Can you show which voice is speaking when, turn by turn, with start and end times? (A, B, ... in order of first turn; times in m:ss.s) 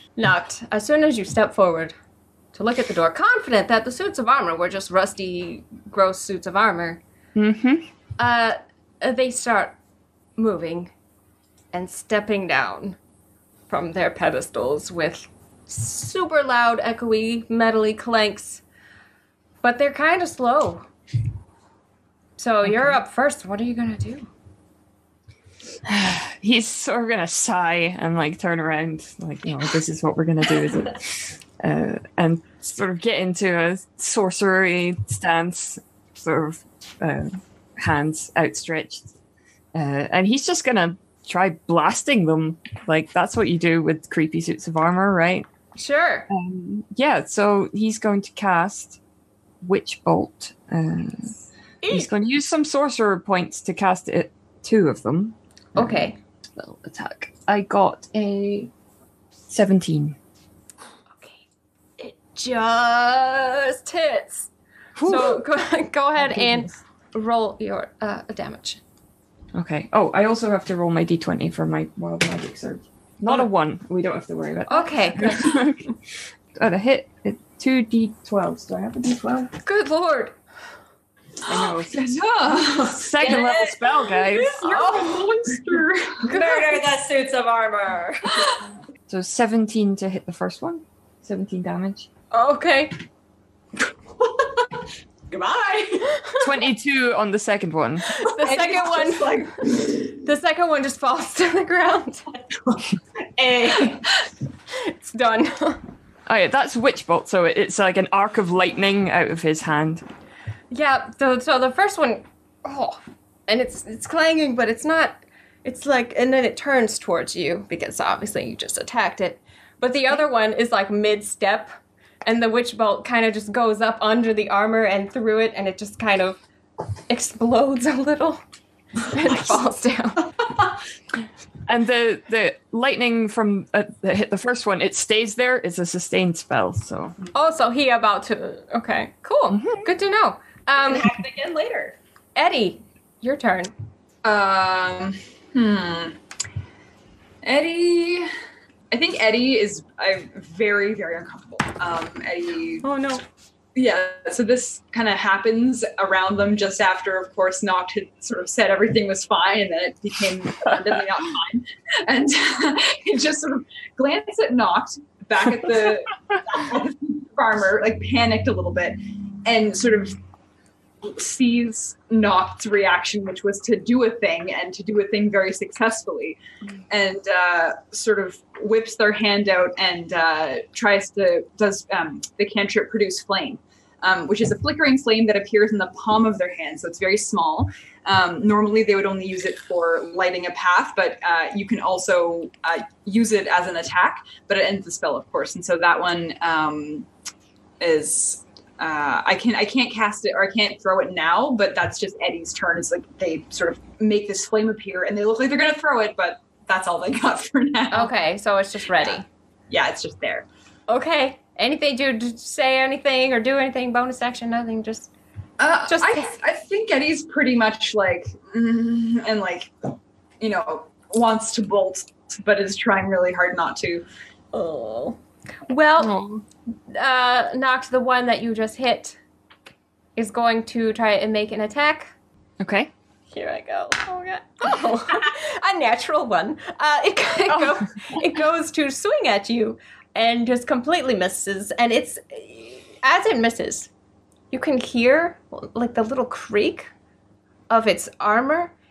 0:00.2-0:01.9 A
0:02.5-0:07.0 A
0:07.3-0:07.8 B
0:08.2-0:09.8 A
0:10.4-0:10.9 A
0:11.7-0:13.0 A
0:13.7-0:18.6 A
0:19.6-0:20.9 A
0:22.4-0:24.3 A
0:22.6-0:23.0 B
0:25.8-0:39.1 B
0:39.7-0:45.4 B
0:45.7-0:46.3 A
0:46.3-0:49.0 B
0:49.6-0:51.3 B
0:51.8-0:52.1 A
0:51.9-0:58.7 B
0:55.7-0:56.2 A
0:59.5-1:00.2 B
1:01.2-1:01.4 A
1:02.0-1:04.5 A
1:05.0-1:05.4 B
1:05.0-1:08.8 A
1:06.2-1:06.8 B
1:09.5-1:16.0 B
1:14.7-1:15.6 A
1:16.5-1:19.5 B
1:19.6-1:20.4 A
1:21.4-1:22.2 B
1:21.5-1:23.1 C
1:22.9-1:24.8 B
1:23.2-1:24.5 D
1:24.6-1:26.3 C
1:26.2-1:28.6 D
1:26.3-1:26.8 A
1:29.1-1:32.1 B
1:32.3-1:33.0 A
1:35.3-1:36.3 E
1:36.4-1:38.1 B
1:38.1-1:42.3 A
1:38.3-1:39.5 E
1:43.4-1:44.0 E
1:44.8-1:45.8 A
1:46.3-1:50.0 B
1:50.7-2:01.7 A
2:02.2-2:06.4 A
2:07.1-2:08.4 A
2:09.1-2:10.3 A
2:11.6-2:17.2 B
2:17.3-2:21.1 A
2:19.5-2:19.9 B
2:20.7-2:22.0 D
2:22.4-2:23.7 A
2:24.2-2:26.2 C
2:27.4-2:28.3 C
2:28.9-2:32.9 C
2:32.8-2:33.2 A
2:33.7-2:50.2 C
2:51.0-3:17.1 C
3:17.8-3:28.1 C
3:27.9-3:29.2 A
3:29.0-3:30.5 C
3:30.9-3:35.1 A
3:35.6-3:39.8 C
3:35.8-3:36.3 A
3:40.4-3:44.0 C
3:44.5-3:45.2 A
3:45.7-3:46.3 A
3:46.0-3:46.4 B
3:46.9-3:49.2 A
3:50.2-3:52.1 A
3:52.6-3:52.9 B
3:53.3-4:03.9 A
3:57.5-3:57.8 B
4:04.5-4:06.9 A
4:07.7-4:08.7 A